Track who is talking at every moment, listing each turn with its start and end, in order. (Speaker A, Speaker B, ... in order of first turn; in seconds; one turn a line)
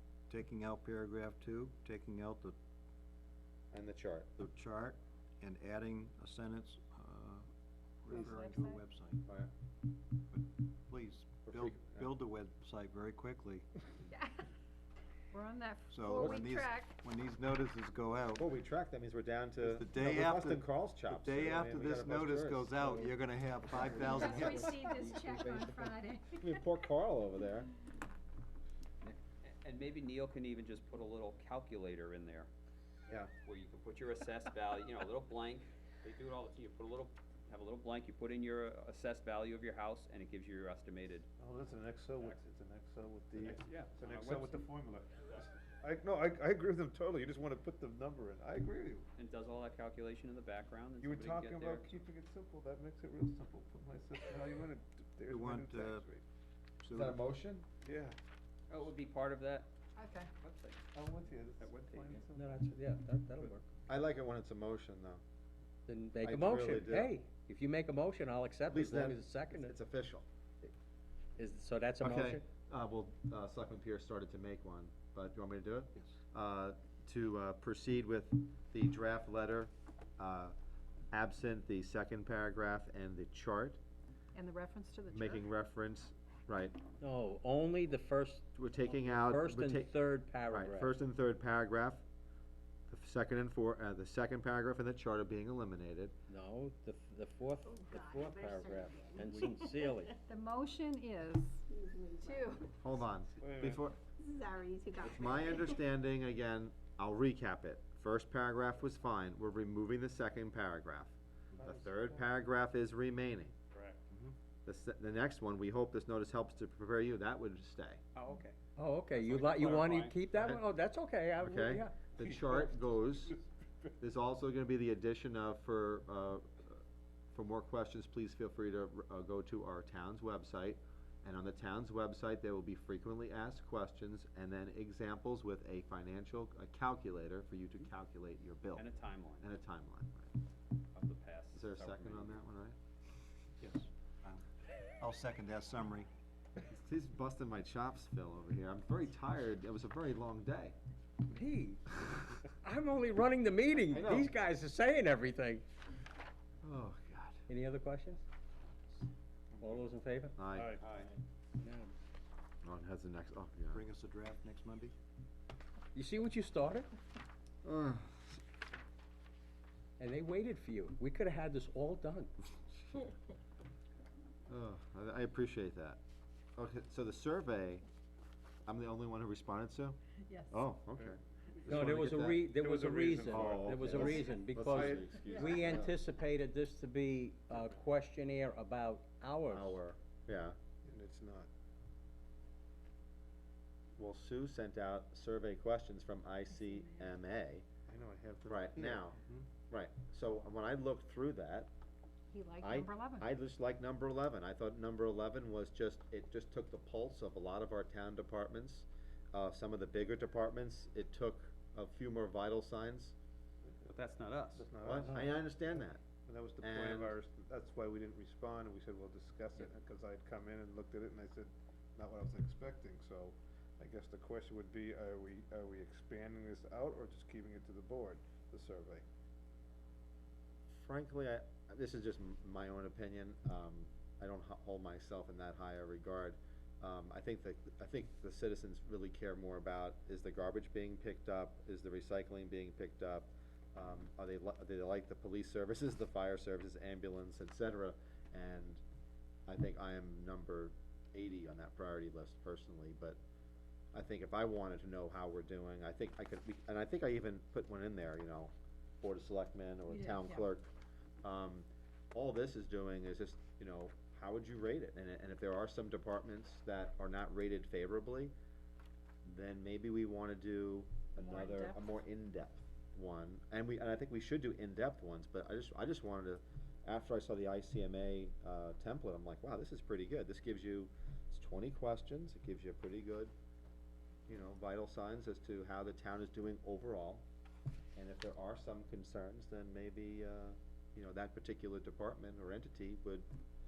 Speaker A: 0.3-2.5
Speaker B: 3.7-4.3
Speaker A: 4.4-7.5
Speaker A: 8.0-9.2
Speaker C: 8.1-8.8
Speaker A: 10.3-13.7
Speaker B: 11.4-12.1
Speaker C: 14.1-14.4
Speaker C: 15.3-17.0
Speaker A: 15.9-18.4
Speaker B: 18.4-22.9
Speaker A: 19.6-24.9
Speaker D: 23.8-25.9
Speaker C: 23.9-26.6
Speaker B: 26.4-27.7
Speaker E: 29.4-32.5
Speaker E: 33.4-41.3
Speaker F: 41.4-49.0
Speaker E: 43.4-44.6
Speaker E: 49.1-52.0
Speaker F: 51.0-56.2
Speaker A: 55.3-56.0
Speaker A: 56.8-57.2
Speaker B: 56.9-57.7
Speaker F: 57.8-58.1
Speaker E: 58.7-59.7
Speaker C: 60.0-60.3
Speaker E: 60.4-60.9
Speaker F: 60.9-62.7
Speaker E: 61.6-62.3
Speaker D: 62.3-63.6
Speaker B: 63.9-65.2
Speaker D: 65.9-69.7
Speaker B: 66.2-67.1
Speaker B: 68.7-70.7
Speaker D: 71.4-72.4
Speaker B: 72.0-80.5
Speaker B: 81.1-83.8
Speaker C: 84.3-85.5
Speaker B: 85.1-86.8
Speaker D: 87.0-90.9
Speaker B: 88.5-89.9
Speaker B: 90.5-92.0
Speaker B: 92.9-96.1
Speaker D: 96.3-100.1
Speaker G: 97.6-100.1
Speaker C: 100.3-101.6
Speaker G: 101.7-102.7
Speaker C: 102.2-102.7
Speaker B: 102.8-104.0
Speaker F: 103.4-103.8
Speaker G: 104.2-105.8
Speaker B: 105.0-113.5
Speaker F: 111.6-112.3
Speaker B: 114.7-118.0
Speaker D: 118.2-122.0
Speaker E: 119.1-120.2
Speaker B: 120.3-120.6
Speaker B: 121.4-123.3
Speaker F: 122.2-123.9
Speaker B: 124.0-126.8
Speaker B: 127.3-138.9
Speaker E: 138.7-139.5
Speaker B: 139.4-140.3
Speaker E: 140.9-142.4
Speaker B: 141.5-142.8
Speaker A: 143.6-144.4
Speaker A: 145.0-146.1
Speaker B: 146.7-150.8
Speaker D: 151.3-151.9
Speaker D: 152.5-155.6
Speaker B: 153.9-154.3
Speaker B: 156.6-157.4
Speaker D: 157.5-158.2
Speaker D: 159.6-160.4
Speaker B: 160.4-160.8
Speaker F: 160.5-160.8
Speaker D: 161.6-161.9
Speaker B: 162.6-163.8
Speaker A: 163.7-164.9
Speaker D: 165.9-166.9
Speaker B: 167.6-168.4
Speaker D: 170.0-172.3
Speaker B: 174.5-176.0
Speaker B: 176.6-177.8
Speaker B: 178.7-180.0
Speaker C: 180.3-180.7
Speaker B: 180.5-182.5
Speaker F: 181.0-181.9
Speaker D: 181.7-189.8
Speaker F: 182.4-185.4
Speaker B: 183.3-186.0
Speaker B: 189.5-190.6
Speaker F: 190.8-191.5
Speaker B: 194.0-197.6
Speaker C: 196.7-197.0
Speaker F: 197.9-199.1
Speaker B: 198.5-199.2
Speaker B: 199.7-201.7
Speaker C: 202.3-203.3
Speaker B: 202.6-213.1
Speaker E: 213.8-214.6
Speaker F: 214.5-229.0
Speaker B: 214.8-216.0
Speaker B: 216.6-217.2
Speaker B: 230.7-248.8
Speaker B: 249.5-253.2
Speaker B: 253.9-260.7
Speaker C: 259.9-260.4
Speaker B: 261.2-268.3
Speaker B: 269.2-283.3
Speaker C: 271.2-271.9
Speaker B: 284.3-287.2
Speaker B: 287.9-293.3